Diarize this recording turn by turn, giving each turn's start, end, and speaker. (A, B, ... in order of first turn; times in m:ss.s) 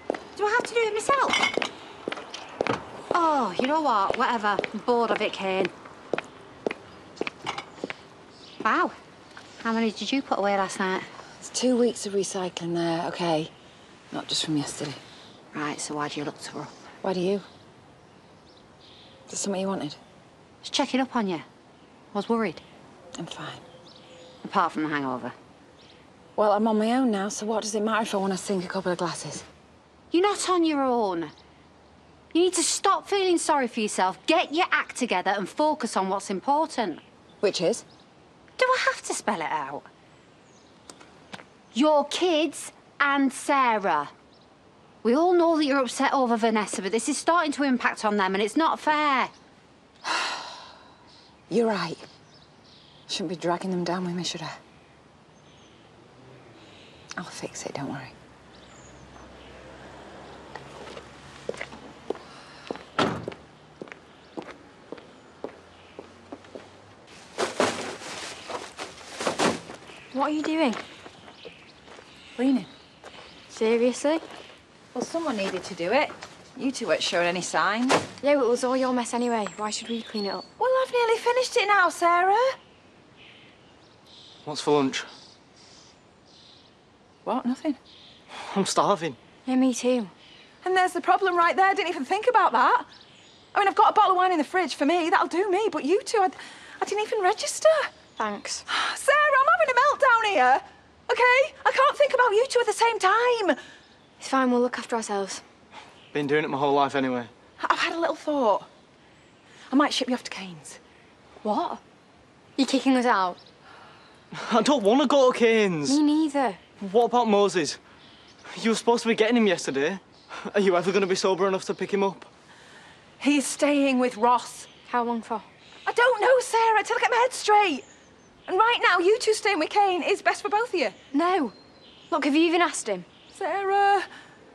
0:00.3-0:01.4 A
0:03.1-0:05.7 A
0:08.6-0:08.9 A
0:09.6-0:11.0 A
0:11.4-0:13.5 B
0:14.1-0:15.0 B
0:15.5-0:16.7 A
0:17.0-0:17.4 B
0:19.3-0:20.0 B
0:20.6-0:21.4 A
0:22.1-0:22.6 A
0:23.2-0:23.6 B
0:24.4-0:25.3 A
0:26.4-0:29.4 B
0:30.1-0:31.3 A
0:32.3-0:37.0 A
0:37.4-0:37.8 B
0:38.6-0:39.8 A
0:41.7-0:44.1 A
0:45.0-0:49.3 A
0:50.1-0:50.4 B
0:51.5-0:52.0 B
0:53.1-0:54.5 B
0:57.2-0:58.1 B
1:10.1-1:10.8 C
1:12.4-1:12.7 B
1:13.5-1:14.2 C
1:14.9-1:18.0 B
1:18.2-1:20.5 C
1:20.6-1:22.4 D
1:24.4-1:25.1 E
1:27.2-1:27.8 B
1:28.5-1:29.2 E
1:29.4-1:30.1 C
1:30.6-1:32.8 D
1:31.2-1:32.0 B
1:33.6-1:37.8 D
1:33.6-1:35.7 B
1:38.2-1:38.6 C
1:38.7-1:43.6 D
1:44.2-1:45.4 C
1:46.1-1:47.3 E
1:47.6-1:48.7 D
1:49.7-1:50.8 D
1:51.4-1:51.8 C
1:52.6-1:53.4 C
1:54.3-1:56.0 E
1:55.8-1:56.6 C
1:56.8-1:57.8 E
1:58.5-2:02.3 E
2:03.2-2:04.5 D
2:04.1-2:04.7 B
2:04.8-2:05.4 C
2:05.9-2:07.8 D
2:08.5-2:10.9 D
2:10.1-2:10.9 B
2:11.1-2:11.5 C
2:12.1-2:13.1 C
2:13.4-2:13.9 B
2:13.4-2:14.0 D